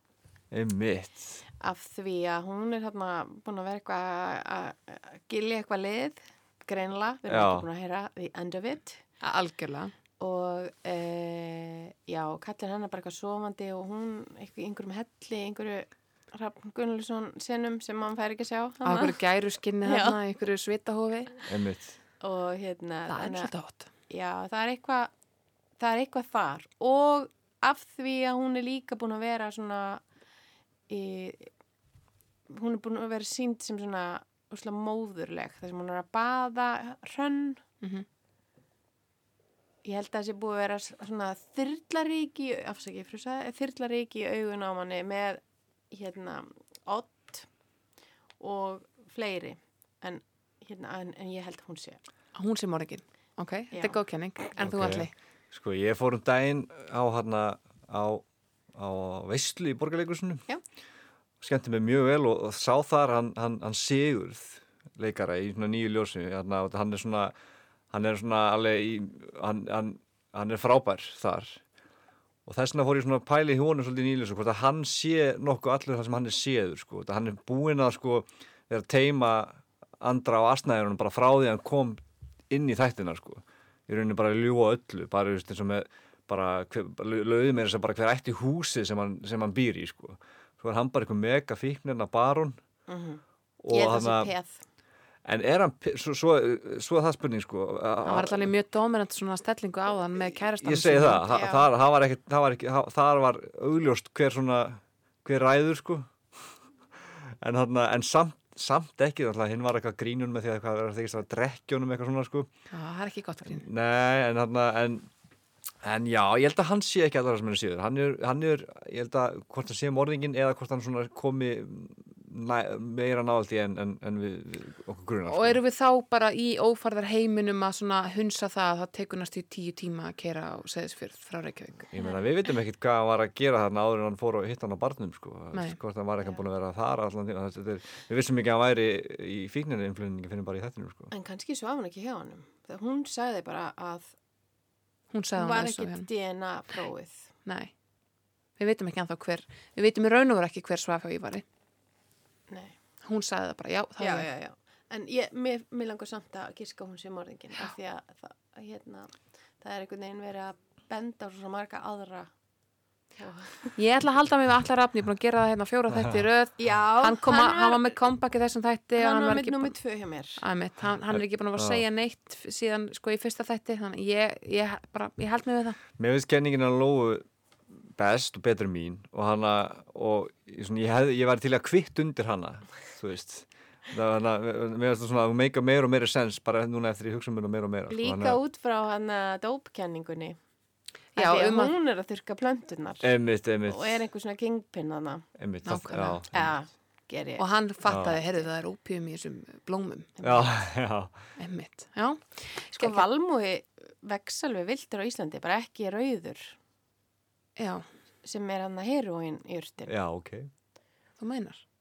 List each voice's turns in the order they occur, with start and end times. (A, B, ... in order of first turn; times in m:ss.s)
0:00.5-0:01.4 A
0:01.6-0:09.0 B
0:07.3-0:07.6 A
0:09.2-0:09.9 C
0:10.2-0:19.2 B
0:18.8-0:21.4 C
0:19.8-0:20.2 B
0:21.5-0:22.0 A
0:22.2-0:23.5 B
0:23.1-0:23.9 C
0:24.1-0:25.1 B
0:25.8-0:30.0 B
0:30.9-0:31.5 B
0:32.5-0:37.6 B
0:39.8-0:45.4 B
0:45.9-0:47.4 B
0:48.4-0:52.0 B
0:52.3-0:55.1 C
0:53.7-0:54.0 B
0:54.6-1:00.4 A
1:01.4-1:07.3 A
1:07.9-1:11.6 A
1:12.4-1:32.6 A
1:32.9-1:34.6 B
1:33.6-1:34.3 A
1:35.2-1:38.5 A
1:38.0-1:41.3 C
1:40.6-1:46.1 A
1:41.3-1:41.7 B
1:47.4-1:52.5 A
1:52.7-1:53.6 C
1:53.4-1:55.1 A
1:55.8-2:05.6 A
2:05.2-2:11.9 C
2:11.9-2:21.1 A
2:21.1-2:24.1 B
2:25.1-2:26.1 C
2:25.4-2:27.3 B
2:27.4-2:27.7 C
2:28.6-2:31.4 C
2:32.5-2:32.7 B
2:33.0-2:34.3 C
2:34.0-2:42.3 B
2:43.2-2:43.8 B
2:43.8-2:49.7 C
2:45.9-2:46.2 A
2:46.6-2:47.9 B
2:49.0-2:50.4 B
2:50.4-2:55.8 C
2:51.1-2:51.8 A
2:56.0-2:57.2 A
2:57.8-3:08.4 A
3:07.9-3:10.4 B
3:11.2-3:11.7 C
3:11.2-3:13.1 B
3:13.0-3:14.0 A
3:13.6-3:15.2 B
3:15.4-3:16.5 A
3:15.6-3:16.2 C
3:16.3-3:17.4 B
3:17.4-3:20.1 C
3:17.8-3:18.2 A
3:18.0-3:18.4 B
3:20.2-3:20.6 B
3:20.2-3:21.1 A
3:21.4-3:23.0 C
3:22.6-3:26.5 B
3:27.6-3:27.8 C
3:28.2-3:29.9 B
3:29.9-3:30.5 A
3:31.2-3:31.6 C